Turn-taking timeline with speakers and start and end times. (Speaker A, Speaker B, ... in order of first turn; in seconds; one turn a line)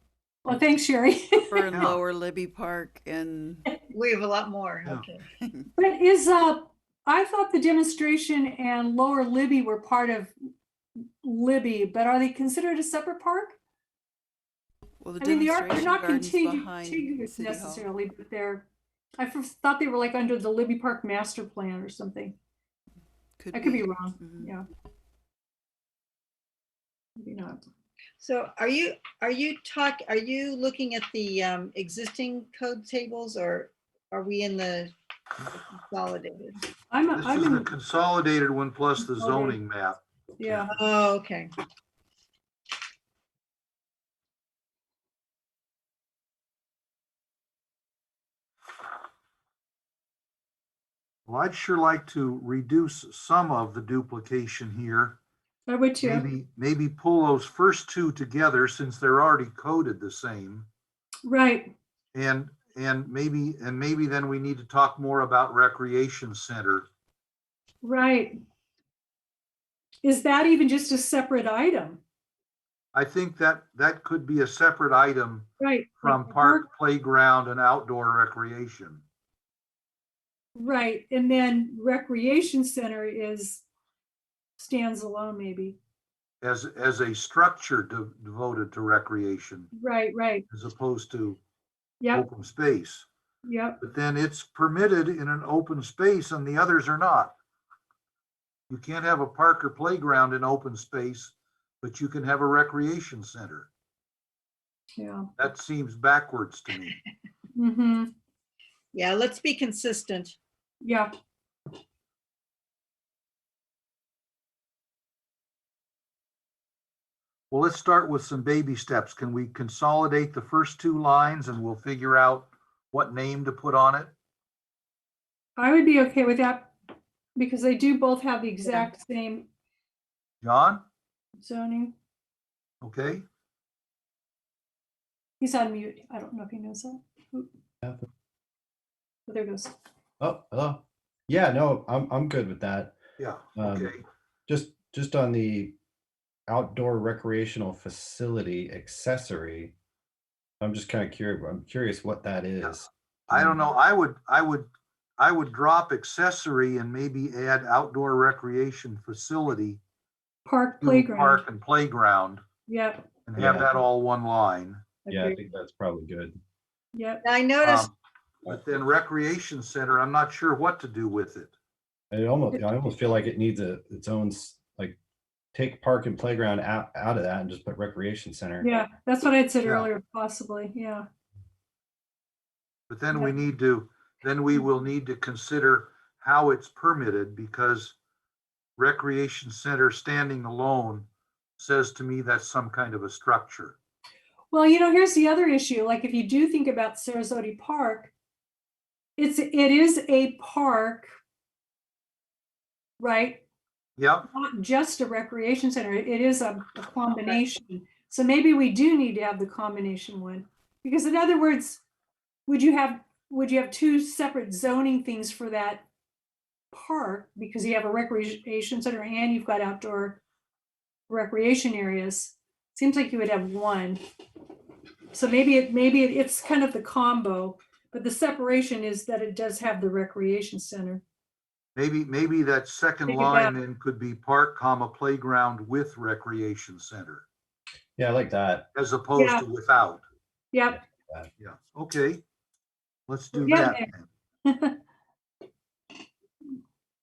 Speaker A: 0.4-1.8
Speaker B: 1.5-3.6
Speaker C: 1.7-2.0
Speaker D: 3.9-5.2
Speaker A: 5.8-10.3
Speaker A: 11.2-13.6
Speaker B: 15.0-17.9
Speaker A: 15.2-22.4
Speaker B: 23.4-24.5
Speaker A: 23.5-24.6
Speaker A: 27.2-27.6
Speaker D: 28.2-34.9
Speaker D: 35.4-36.6
Speaker A: 36.9-37.7
Speaker C: 37.1-40.7
Speaker A: 39.0-39.6
Speaker A: 40.4-40.7
Speaker D: 40.7-41.5
Speaker C: 51.3-55.2
Speaker A: 55.7-56.2
Speaker C: 56.0-60.7
Speaker A: 61.2-61.7
Speaker C: 62.1-66.9
Speaker A: 67.8-68.3
Speaker A: 70.0-72.0
Speaker C: 72.9-75.5
Speaker A: 75.6-76.7
Speaker C: 76.0-79.0
Speaker A: 80.5-83.6
Speaker A: 84.6-85.8
Speaker C: 86.4-89.7
Speaker A: 89.7-90.5
Speaker C: 90.5-91.4
Speaker A: 92.0-92.2
Speaker C: 92.1-93.1
Speaker A: 93.4-93.8
Speaker C: 93.8-97.3
Speaker C: 98.7-103.7
Speaker A: 105.0-105.3
Speaker C: 105.4-107.0
Speaker A: 107.5-108.1
Speaker D: 108.9-110.3
Speaker A: 110.8-111.1
Speaker C: 117.5-124.1
Speaker A: 125.6-126.7
Speaker A: 127.3-129.5
Speaker C: 130.4-130.8
Speaker A: 131.4-131.9
Speaker C: 132.8-133.2
Speaker A: 135.4-137.5
Speaker E: 137.8-138.1
Speaker A: 139.3-139.7
Speaker E: 140.2-143.0
Speaker C: 143.2-144.0
Speaker E: 143.5-145.7
Speaker E: 146.5-149.7
Speaker E: 150.6-153.6
Speaker C: 152.6-159.8
Speaker A: 160.4-161.4
Speaker C: 160.8-162.4
Speaker A: 162.7-163.1
Speaker C: 163.3-164.8
Speaker E: 163.4-163.8
Speaker E: 165.1-166.4
Speaker D: 165.1-165.4
Speaker A: 166.9-167.2
Speaker D: 167.2-167.9
Speaker C: 167.6-167.9
Speaker C: 168.4-171.5
Speaker E: 172.1-175.0
Speaker E: 175.5-178.7
Speaker A: 178.6-181.1
Speaker C: 179.6-179.9
Speaker C: 182.9-187.9
Speaker A: 183.1-183.4
Speaker C: 188.8-191.1
Speaker C: 191.6-193.8
Speaker A: 194.5-198.1
Speaker A: 199.2-201.1
Speaker A: 203.0-203.4
Speaker C: 204.0-204.3
Speaker A: 204.3-211.8
Speaker A: 212.5-215.9
Speaker A: 216.7-220.2
Speaker A: 221.1-224.0
Speaker A: 225.1-231.0
Speaker C: 231.8-237.2
Speaker A: 233.1-233.6
Speaker E: 238.0-238.7
Speaker C: 238.7-240.0
Speaker A: 239.1-239.4
Speaker A: 240.5-240.8
Speaker E: 240.7-241.3
Speaker C: 241.4-242.2
Speaker C: 243.1-244.1
Speaker A: 243.3-243.9
Speaker A: 244.4-244.8